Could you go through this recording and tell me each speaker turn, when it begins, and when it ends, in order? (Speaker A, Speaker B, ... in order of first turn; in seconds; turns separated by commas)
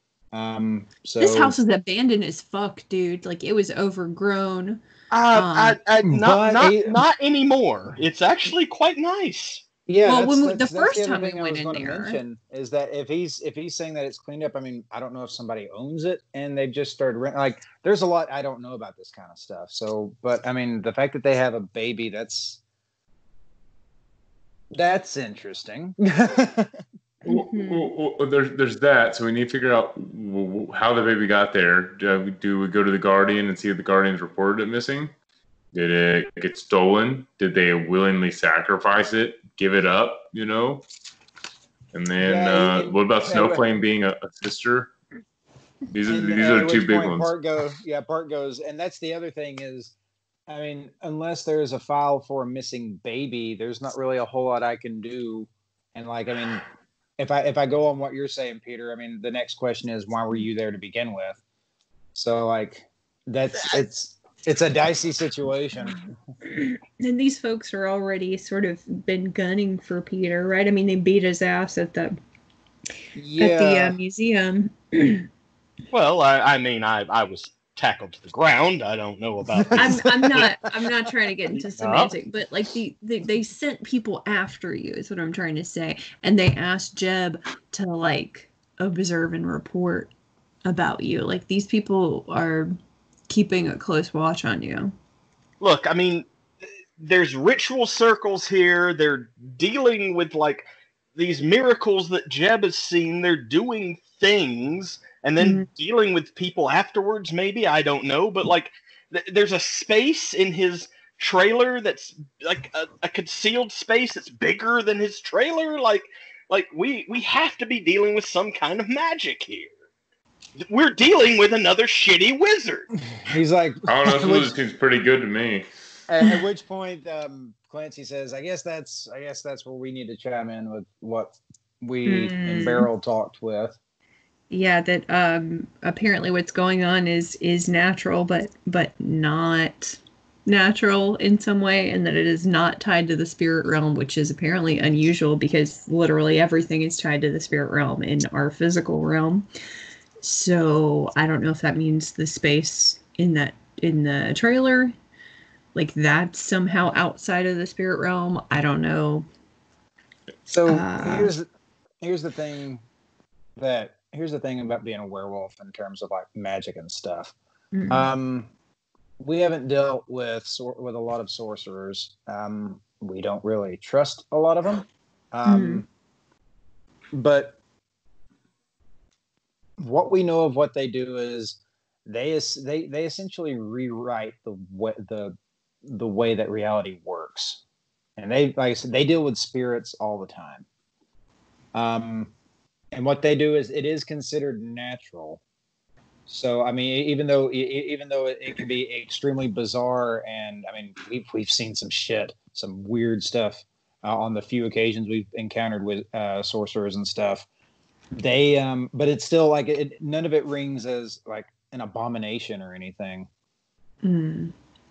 Speaker A: 0.3-1.5, Speaker B: 1.2-5.8, Speaker C: 5.1-9.6, Speaker A: 6.0-7.0, Speaker A: 9.9-22.6, Speaker B: 10.0-12.2, Speaker A: 24.7-26.7, Speaker B: 27.2-27.9, Speaker D: 27.2-35.1, Speaker D: 35.7-40.8, Speaker D: 41.9-44.9, Speaker A: 42.2-43.6, Speaker D: 45.9-47.3, Speaker A: 46.1-49.9, Speaker A: 50.5-56.6, Speaker A: 57.2-61.4, Speaker A: 62.1-66.0, Speaker B: 66.4-72.2, Speaker A: 73.1-74.0, Speaker B: 73.4-75.3, Speaker C: 75.9-80.7, Speaker A: 79.5-80.0, Speaker B: 79.8-90.1, Speaker C: 81.5-82.1, Speaker B: 90.6-92.7, Speaker B: 93.3-94.9, Speaker C: 95.6-96.3, Speaker C: 97.0-119.7, Speaker B: 105.4-105.7, Speaker C: 120.6-122.9, Speaker A: 123.2-124.5, Speaker D: 123.9-125.7, Speaker A: 126.1-133.8, Speaker B: 132.0-132.9, Speaker B: 134.5-149.5, Speaker B: 150.2-154.9, Speaker B: 155.7-159.3, Speaker A: 160.5-161.5, Speaker B: 160.7-161.3, Speaker A: 162.0-162.8, Speaker A: 163.6-167.3, Speaker B: 167.7-168.1, Speaker A: 167.9-168.5, Speaker A: 169.2-175.8, Speaker B: 175.4-175.8, Speaker A: 177.1-177.6, Speaker A: 179.8-187.6, Speaker A: 188.2-190.7, Speaker A: 191.7-192.3, Speaker A: 192.9-195.4, Speaker A: 196.3-207.4, Speaker A: 208.2-213.3, Speaker B: 214.0-214.5